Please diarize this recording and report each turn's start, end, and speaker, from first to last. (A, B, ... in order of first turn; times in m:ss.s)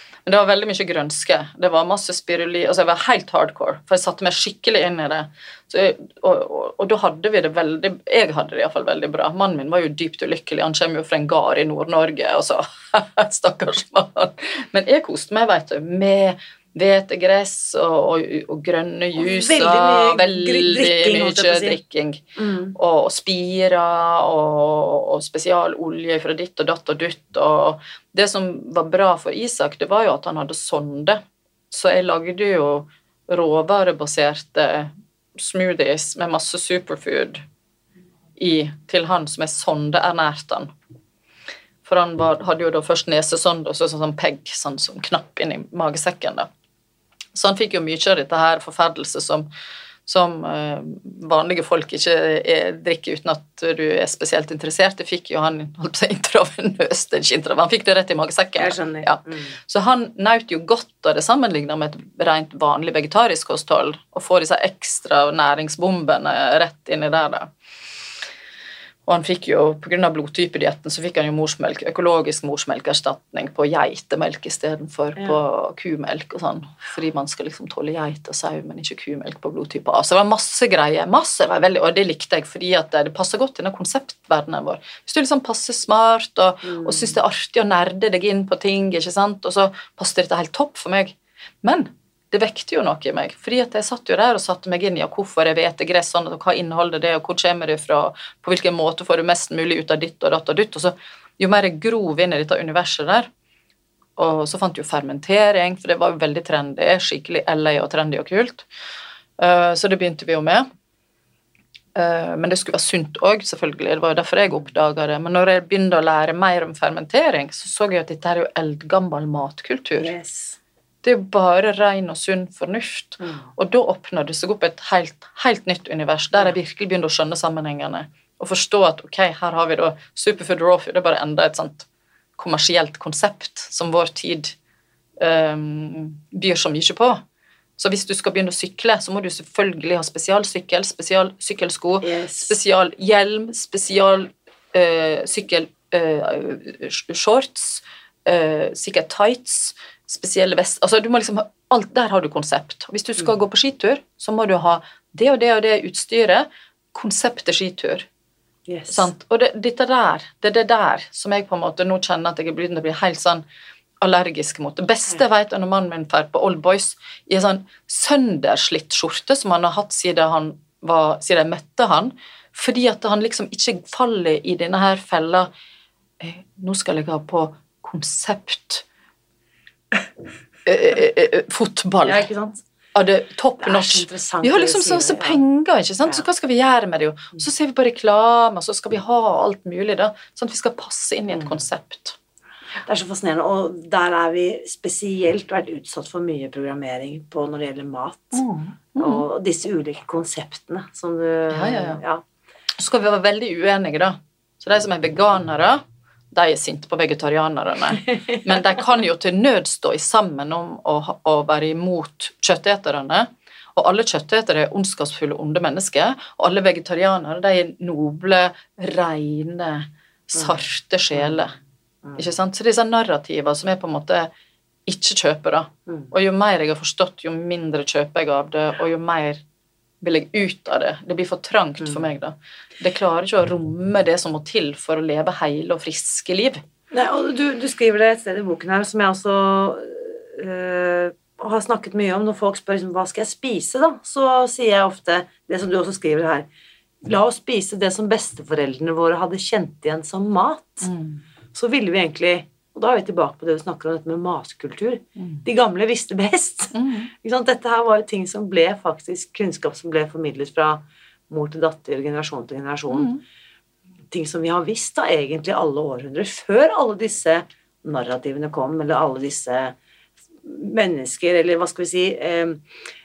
0:00.2-0:37.4 A
0:19.2-0:21.8 B
0:22.4-0:22.8 B
0:38.4-0:40.7 A
0:41.8-0:46.5 A
0:47.3-0:49.5 A
0:50.1-1:07.5 A
0:58.6-0:59.6 B
1:09.1-1:43.3 A
1:26.6-1:27.2 B
1:44.2-1:48.7 A
1:49.4-1:50.7 A
1:52.0-2:00.1 A
2:00.0-2:00.6 B
2:01.0-2:11.9 A
2:03.2-2:03.5 B
2:12.4-2:14.6 A
2:15.2-2:17.2 A
2:17.8-2:38.1 A
2:22.0-2:22.6 B
2:38.7-2:39.1 B
2:38.9-2:43.4 A
2:44.0-2:55.5 A
2:56.2-2:58.8 A
3:00.7-3:02.3 A
3:02.0-3:02.6 B
3:03.0-3:12.2 A
3:03.6-3:05.4 B
3:11.3-3:11.6 B
3:12.8-3:18.4 B
3:18.3-3:19.3 A
3:19.0-3:22.2 B
3:21.5-3:22.0 A
3:22.8-3:41.6 A
3:42.2-3:44.3 A
3:44.9-3:49.4 A
3:50.0-3:56.6 A
3:56.9-4:06.5 B
4:07.0-4:10.9 B
4:10.8-4:11.2 A
4:11.5-4:23.2 B
4:16.7-4:17.1 A
4:22.9-4:23.2 A
4:24.1-4:29.8 B
4:30.4-4:32.6 B